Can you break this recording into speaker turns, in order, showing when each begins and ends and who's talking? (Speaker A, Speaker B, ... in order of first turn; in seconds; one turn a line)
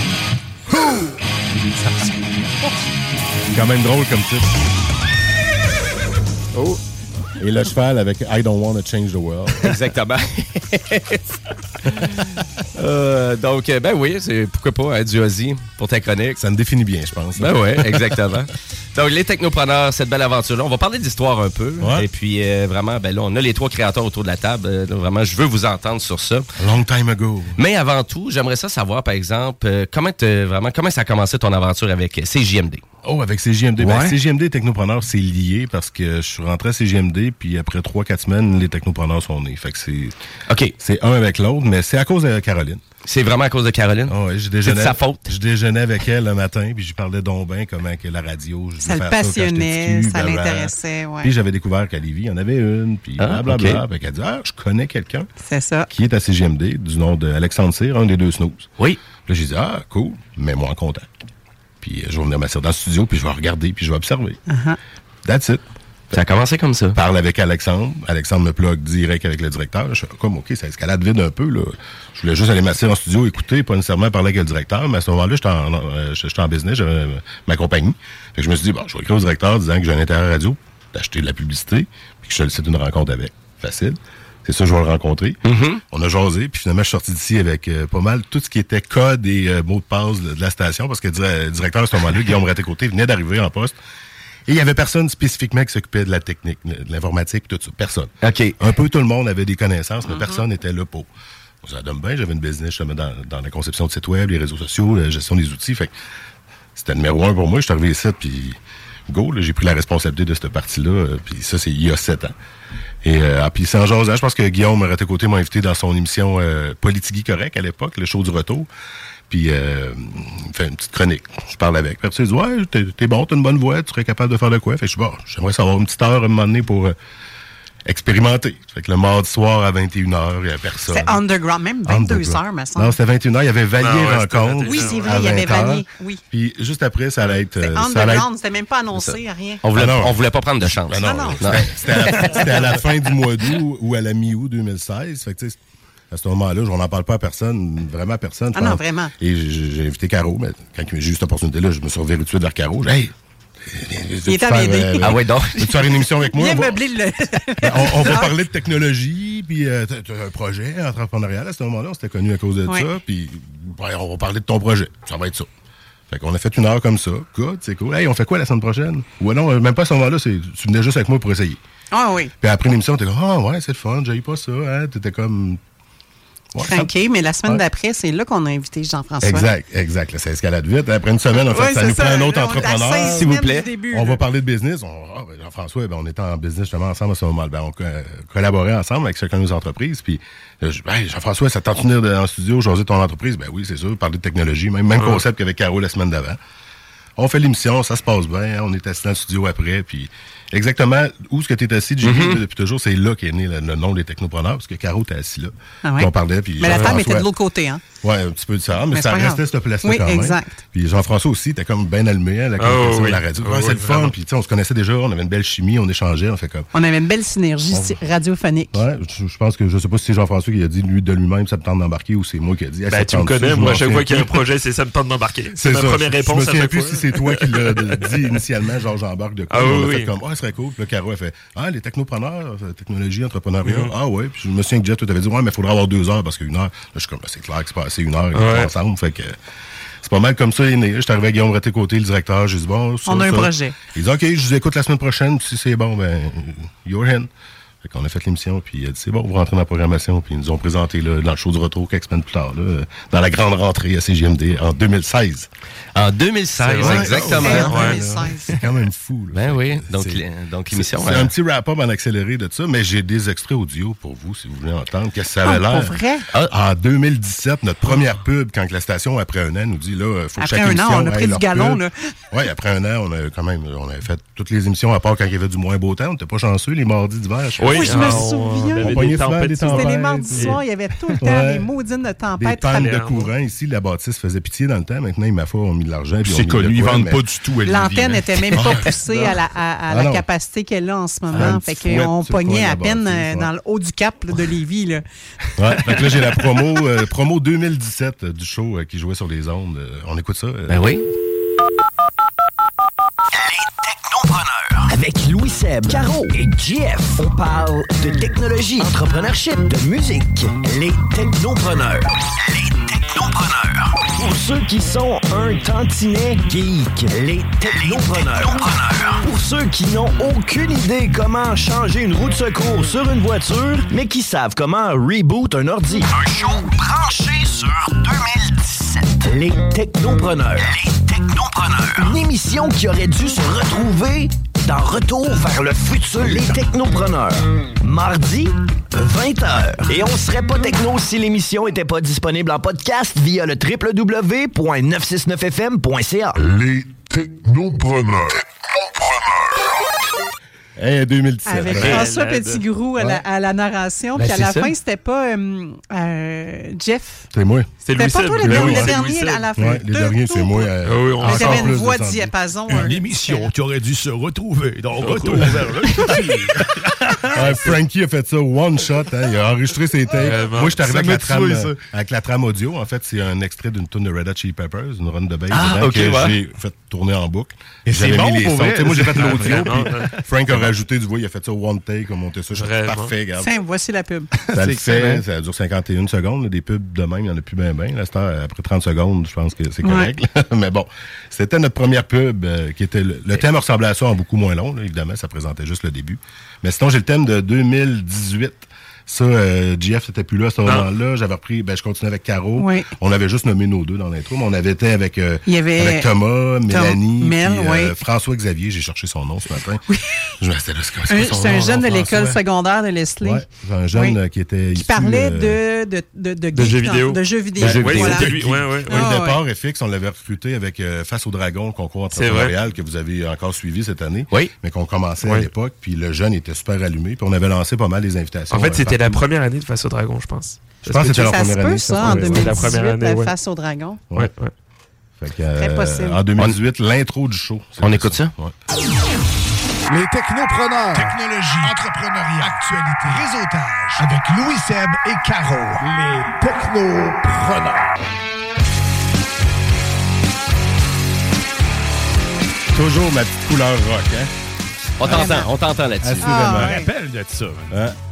Speaker A: 3.5-4.5
Speaker A: 7.4-9.7
Speaker B: 9.6-11.2
Speaker B: 12.8-16.4
Speaker A: 16.4-18.3
Speaker B: 17.4-26.5
Speaker A: 21.8-22.1
Speaker A: 26.6-27.6
Speaker B: 27.6-32.8
Speaker A: 33.0-40.2
Speaker B: 33.8-34.1
Speaker B: 40.5-40.7
Speaker A: 40.8-42.8
Speaker B: 43.0-45.3
Speaker A: 44.1-55.3
Speaker C: 48.8-51.3
Speaker B: 53.2-53.8
Speaker C: 55.4-55.9
Speaker A: 55.9-58.7
Speaker A: 59.2-61.3
Speaker A: 61.8-64.4
Speaker C: 64.5-64.8
Speaker A: 65.2-65.6
Speaker B: 66.1-67.0
Speaker A: 66.9-85.4
Speaker B: 85.5-85.8
Speaker A: 85.9-93.8
Speaker A: 94.5-101.1
Speaker B: 98.2-98.6
Speaker C: 100.1-100.4
Speaker A: 101.6-105.9
Speaker A: 106.8-108.6
Speaker A: 109.1-112.3
Speaker A: 113.0-118.7
Speaker A: 119.3-127.0
Speaker A: 127.8-131.2
Speaker C: 130.9-133.0
Speaker A: 131.9-138.3
Speaker D: 133.8-135.3
Speaker C: 134.7-136.2
Speaker C: 137.6-139.6
Speaker B: 138.9-142.7
Speaker A: 139.7-145.6
Speaker C: 141.0-141.4
Speaker C: 142.1-142.4
Speaker A: 146.1-156.8
Speaker C: 148.5-149.1
Speaker C: 154.3-155.2
Speaker B: 155.0-155.8
Speaker C: 156.3-158.3
Speaker A: 157.6-165.5
Speaker A: 166.1-171.6
Speaker C: 171.9-172.3
Speaker A: 172.4-175.6
Speaker A: 176.5-176.9
Speaker C: 176.6-179.5
Speaker A: 179.2-196.4
Speaker C: 181.5-184.2
Speaker B: 183.1-183.7
Speaker D: 195.0-195.2
Speaker A: 197.2-207.3
Speaker B: 202.0-202.4
Speaker C: 205.8-207.8
Speaker D: 206.7-207.0
Speaker A: 208.0-216.7
Speaker C: 208.9-210.6
Speaker D: 212.6-214.1
Speaker C: 216.7-218.8
Speaker A: 217.7-218.0
Speaker A: 218.7-224.3
Speaker D: 222.9-228.4
Speaker A: 225.6-239.4
Speaker D: 229.5-230.1
Speaker D: 233.7-233.9
Speaker D: 238.3-238.7
Speaker A: 240.0-247.3
Speaker C: 243.1-243.8
Speaker A: 247.8-255.5
Speaker B: 255.9-257.9
Speaker D: 256.6-258.0
Speaker A: 256.8-280.6
Speaker C: 257.4-258.7
Speaker B: 259.3-261.3
Speaker C: 265.4-266.2
Speaker C: 270.4-271.9
Speaker D: 277.6-280.6
Speaker C: 277.8-283.0
Speaker A: 281.2-281.7
Speaker A: 282.4-287.2
Speaker D: 282.6-283.3
Speaker E: 286.2-288.6
Speaker C: 287.6-295.1
Speaker A: 288.6-289.0
Speaker A: 289.9-290.2
Speaker A: 291.3-293.5
Speaker A: 295.6-300.9
Speaker C: 295.7-296.5
Speaker B: 300.7-301.1
Speaker F: 303.5-346.4
Speaker A: 350.8-352.1
Speaker C: 351.5-357.3
Speaker D: 351.7-352.6
Speaker B: 354.2-354.7
Speaker A: 357.3-357.7
Speaker D: 357.8-359.4
Speaker C: 357.9-360.7
Speaker A: 358.4-359.0
Speaker A: 359.6-362.3
Speaker D: 360.9-361.8
Speaker C: 361.2-363.5
Speaker E: 362.7-367.5
Speaker A: 367.3-383.5
Speaker D: 370.2-370.8
Speaker E: 370.8-371.8
Speaker B: 375.5-376.4
Speaker E: 377.9-380.2
Speaker D: 379.1-380.1
Speaker D: 382.6-383.1
Speaker C: 383.4-384.3
Speaker E: 384.5-385.2
Speaker A: 384.5-409.8
Speaker C: 389.8-390.1
Speaker C: 402.6-402.9
Speaker C: 405.5-406.1
Speaker C: 406.7-408.0
Speaker C: 409.9-410.3
Speaker A: 410.4-412.4
Speaker C: 411.1-414.2
Speaker A: 413.2-415.6
Speaker C: 414.7-418.3
Speaker D: 416.5-419.1
Speaker B: 417.6-418.3
Speaker A: 417.6-429.2
Speaker C: 418.9-419.4
Speaker D: 422.1-422.5
Speaker D: 425.2-425.5
Speaker D: 428.5-431.2
Speaker A: 430.9-432.8
Speaker C: 431.1-434.0
Speaker D: 432.0-433.3
Speaker D: 434.1-434.5
Speaker A: 435.2-438.6
Speaker C: 435.6-436.2
Speaker B: 437.8-438.3
Speaker G: 439.9-441.8
Speaker F: 441.0-441.8
Speaker F: 442.3-445.9
Speaker G: 445.8-447.1
Speaker A: 452.7-454.3
Speaker B: 455.0-456.3
Speaker C: 455.1-455.5
Speaker A: 456.0-456.8
Speaker C: 456.2-456.9
Speaker E: 456.4-457.8
Speaker A: 457.7-458.0